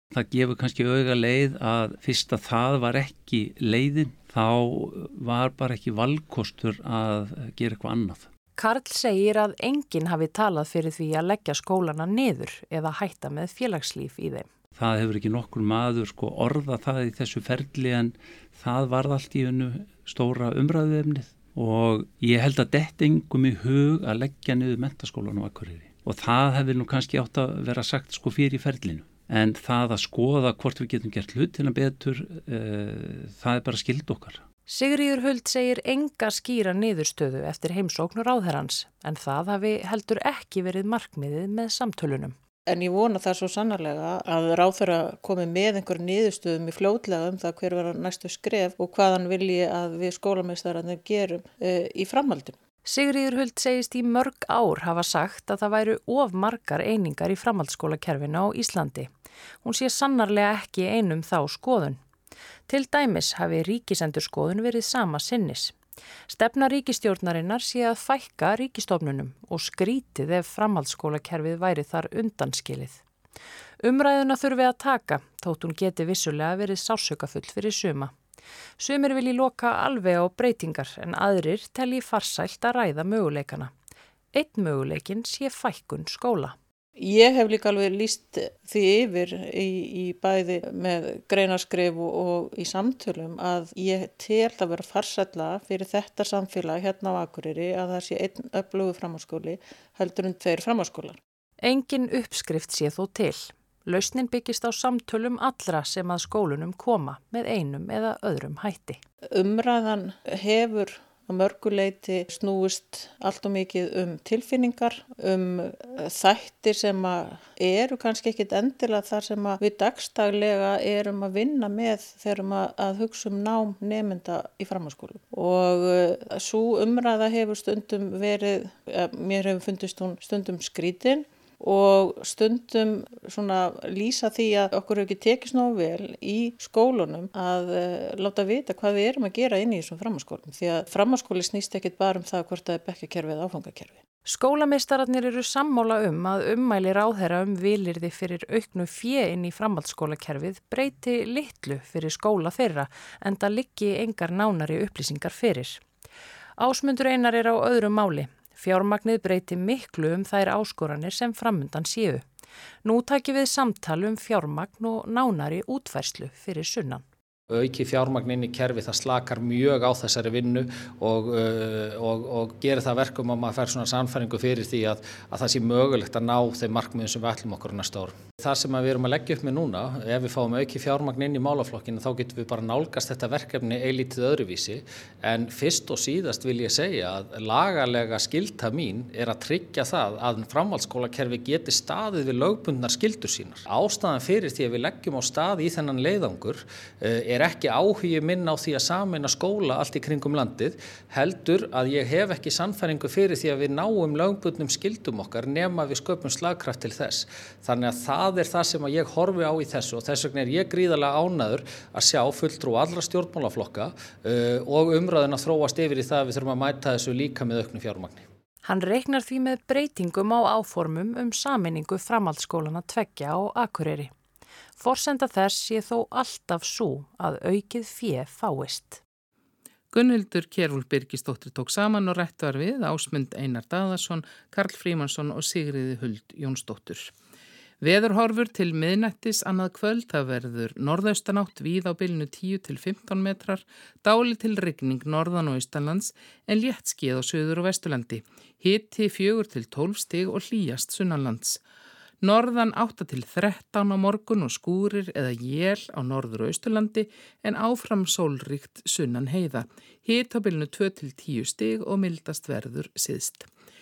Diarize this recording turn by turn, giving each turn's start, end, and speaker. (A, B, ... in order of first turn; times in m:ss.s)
0:00.1-0:08.3 A
0:08.6-0:14.5 B
0:14.8-0:34.4 A
0:34.7-0:42.4 B
0:42.7-0:52.6 C
0:52.8-0:59.1 B
0:59.6-1:02.0 B
1:02.7-1:05.7 B
1:06.3-1:13.0 B
1:13.8-1:18.1 B
1:18.8-1:23.7 B
1:24.3-1:26.6 B
1:27.0-1:41.2 C
1:41.6-1:49.0 B
1:49.3-2:24.0 C
2:24.2-2:35.8 B
2:36.6-2:42.2 B
2:42.8-2:47.0 B
2:47.5-3:38.2 D
3:38.6-3:44.1 B
3:44.8-3:49.0 B
3:49.9-3:57.1 E
3:57.8-4:11.6 E
4:12.2-4:23.5 E